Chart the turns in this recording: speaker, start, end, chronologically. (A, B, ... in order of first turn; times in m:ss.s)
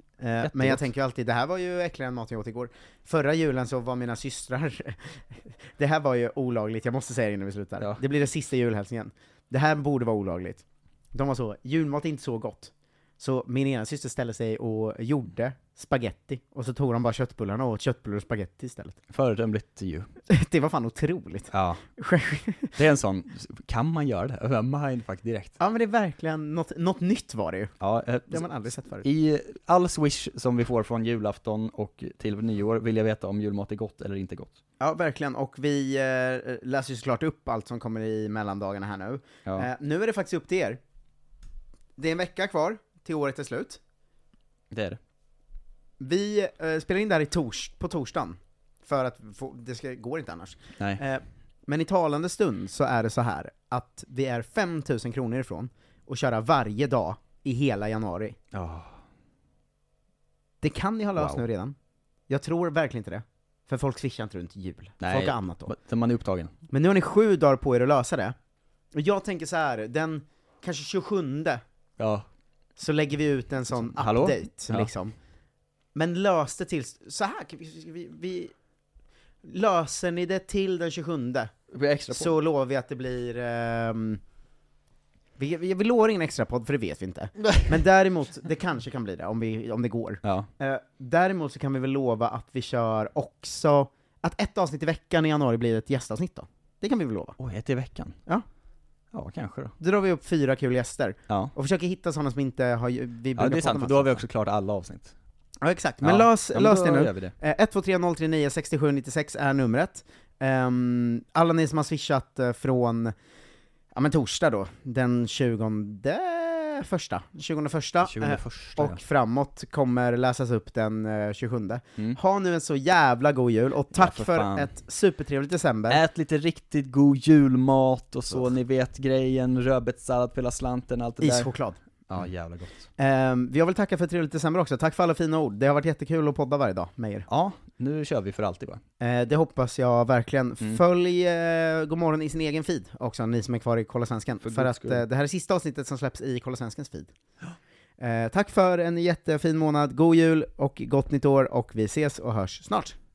0:00.2-0:19.0 A
0:00.4-0:00.8 B
0:19.1-0:20.1 B
0:20.3-0:22.7 A
0:21.5-0:21.8 B
0:22.8-0:25.6 B
0:25.6-0:27.7 A
0:27.8-0:28.5 B
0:28.3-0:29.1 A
0:29.0-0:34.6 B
0:34.8-0:40.8 A
0:42.0-0:43.8 A
0:44.7-0:45.0 B
0:46.0-0:58.4 A
0:58.5-0:59.0 B
1:00.6-1:01.7 A
1:01.2-1:01.4 B
1:02.3-1:05.7 A
1:05.0-1:06.5 B
1:06.7-1:08.3 A
1:08.9-1:11.6 A
1:12.0-1:12.3 B
1:12.8-1:15.1 A
1:13.7-1:14.9 B
1:15.9-1:18.5 A
1:19.4-1:21.5 A
1:21.7-1:22.3 B
1:22.1-1:24.2 A
1:25.4-1:37.4 A
1:37.4-1:38.2 B
1:39.1-1:39.7 B
1:39.8-1:44.2 A
1:43.3-1:45.1 B
1:45.6-1:53.1 A
1:46.0-1:47.3 B
1:53.9-2:06.0 A
1:58.0-1:59.0 B
2:03.9-2:04.7 B
2:05.9-2:11.5 B
2:11.2-2:11.8 A
2:12.1-2:12.9 B
2:13.0-2:17.3 A
2:17.3-2:18.8 B
2:19.0-2:27.1 A
2:24.4-2:25.0 B
2:28.0-2:33.0 A